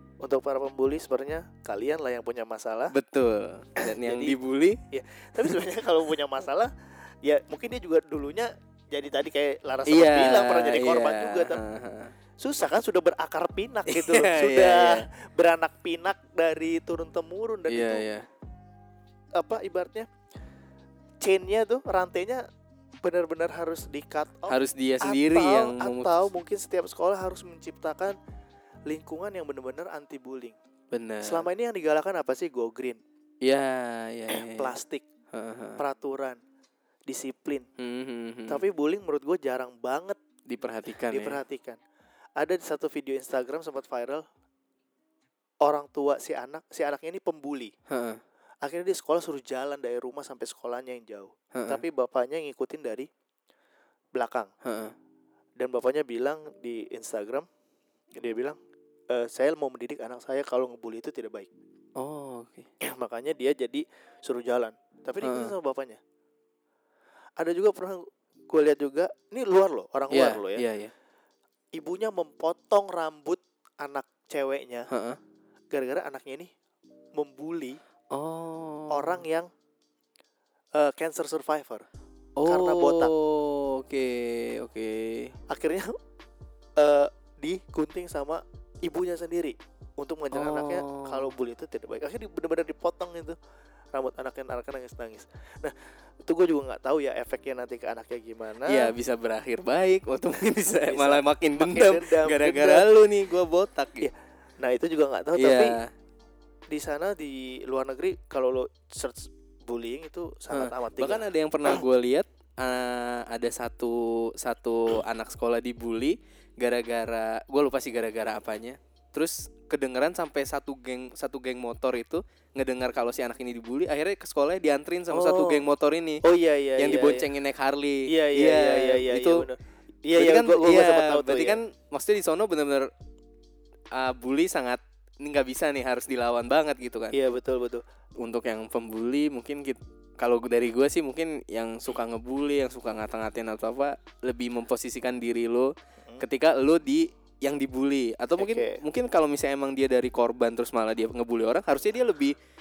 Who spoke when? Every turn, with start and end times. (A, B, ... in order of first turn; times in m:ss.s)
0:00.2-0:03.0 A
0:02.9-0:04.8 B
0:03.8-0:04.4 A
0:04.9-0:06.7 A
0:07.2-0:11.6 A
0:09.9-0:12.1 B
0:12.4-0:18.1 A
0:13.9-0:15.1 B
0:17.7-0:18.3 B
0:19.4-0:20.1 A
0:21.2-0:22.4 A
0:23.0-0:28.2 A
0:24.5-0:26.3 B
0:28.9-0:30.6 A
0:30.9-0:31.5 B
0:31.2-0:33.0 A
0:33.4-0:34.7 B
0:34.3-0:35.0 A
0:35.3-0:35.8 B
0:35.8-0:36.4 A
0:37.1-0:37.7 A
0:37.8-0:38.7 B
0:38.5-0:40.2 A
0:40.5-0:41.4 B
0:41.0-0:41.8 A
0:42.4-0:44.2 A
0:45.6-0:47.7 A
0:47.9-0:48.2 B
0:48.6-0:53.1 A
0:51.5-0:51.8 B
0:54.1-0:54.5 A
0:54.6-0:54.9 B
0:55.6-0:57.5 A
0:58.1-0:58.6 A
0:59.1-1:01.5 A
1:02.0-1:02.7 B
1:02.8-1:06.0 A
1:05.2-1:05.5 B
1:07.4-1:10.6 A
1:10.1-1:10.9 B
1:11.7-1:14.9 A
1:14.9-1:15.2 B
1:15.7-1:16.5 A
1:17.2-1:17.8 A
1:18.1-1:19.2 B
1:18.9-1:19.5 A
1:20.8-1:21.9 A
1:22.4-1:25.4 B
1:22.4-1:23.1 A
1:25.5-1:26.0 A
1:26.8-1:33.4 A
1:30.3-1:31.3 B
1:33.9-1:38.9 A
1:38.7-1:44.1 B
1:40.9-1:42.9 A
1:44.0-1:45.8 A
1:45.4-1:45.9 B
1:46.7-1:51.8 A
1:50.5-2:06.2 B
2:05.1-2:05.6 A
2:06.2-2:07.3 A
2:06.8-2:09.4 B
2:08.1-2:11.6 A
2:10.2-2:12.9 B
2:13.9-2:17.2 B
2:17.1-2:17.8 A
2:18.2-2:32.4 B
2:28.4-2:28.8 A